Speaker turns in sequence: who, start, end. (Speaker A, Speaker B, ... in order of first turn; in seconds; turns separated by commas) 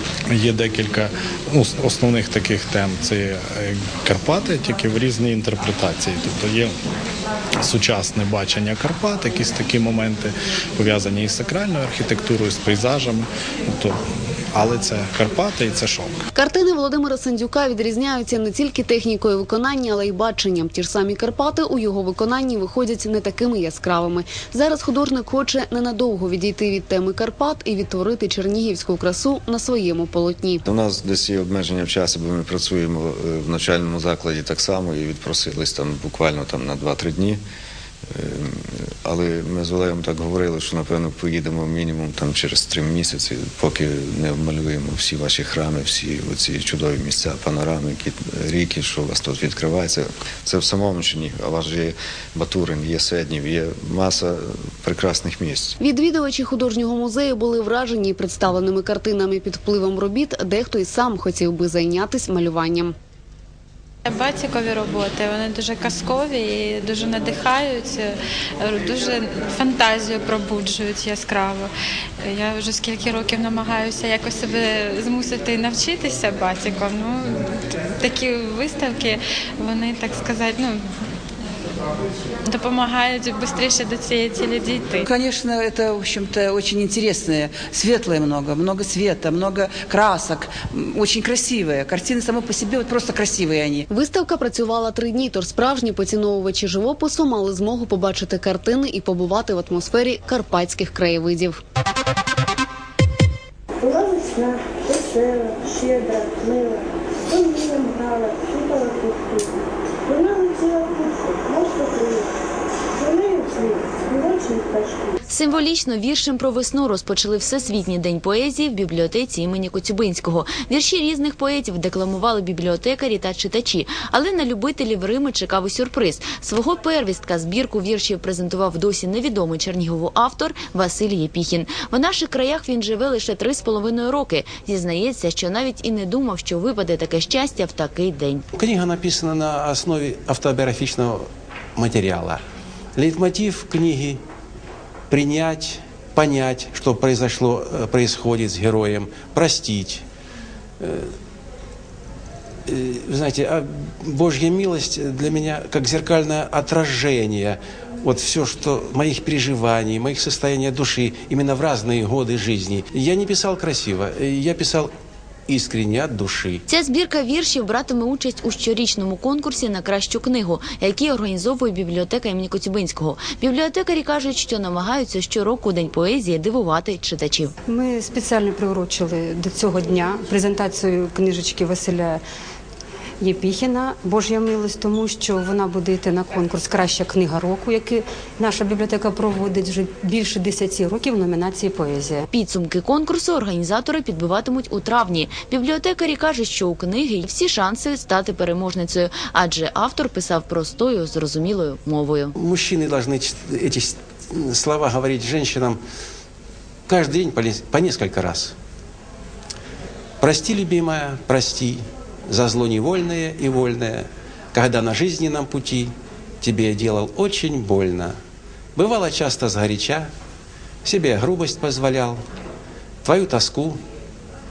Speaker A: 0.3-6.7, Speaker A: 7.6-14.0, Speaker A: 14.5-16.2, Speaker B: 16.4-30.6, Speaker C: 30.7-37.4, Speaker C: 38.1-55.8, Speaker B: 55.8-62.9, Speaker D: 64.0-71.7, Speaker D: 72.2-80.9, Speaker D: 82.5-85.0, Speaker E: 85.0-93.8, Speaker B: 93.9-101.6, Speaker F: 103.9-105.0, Speaker F: 105.7-106.6, Speaker F: 107.9-108.8, Speaker F: 113.1-114.9, Speaker G: 115.3-138.4, Speaker H: 138.5-141.2, Speaker H: 141.8-142.4, Speaker H: 143.0-144.2, Speaker H: 145.1-150.0, Speaker H: 150.8-151.1, Speaker H: 152.7-164.9, Speaker H: 165.5-166.6, Speaker G: 166.7-177.5, Speaker I: 177.7-182.2, Speaker I: 183.2-192.3, Speaker G: 192.3-202.3, Speaker H: 202.4-205.8, Speaker H: 206.9-208.6, Speaker H: 210.2-218.2, Speaker H: 218.8-220.1, Speaker H: 220.8-222.2, Speaker H: 223.0-223.8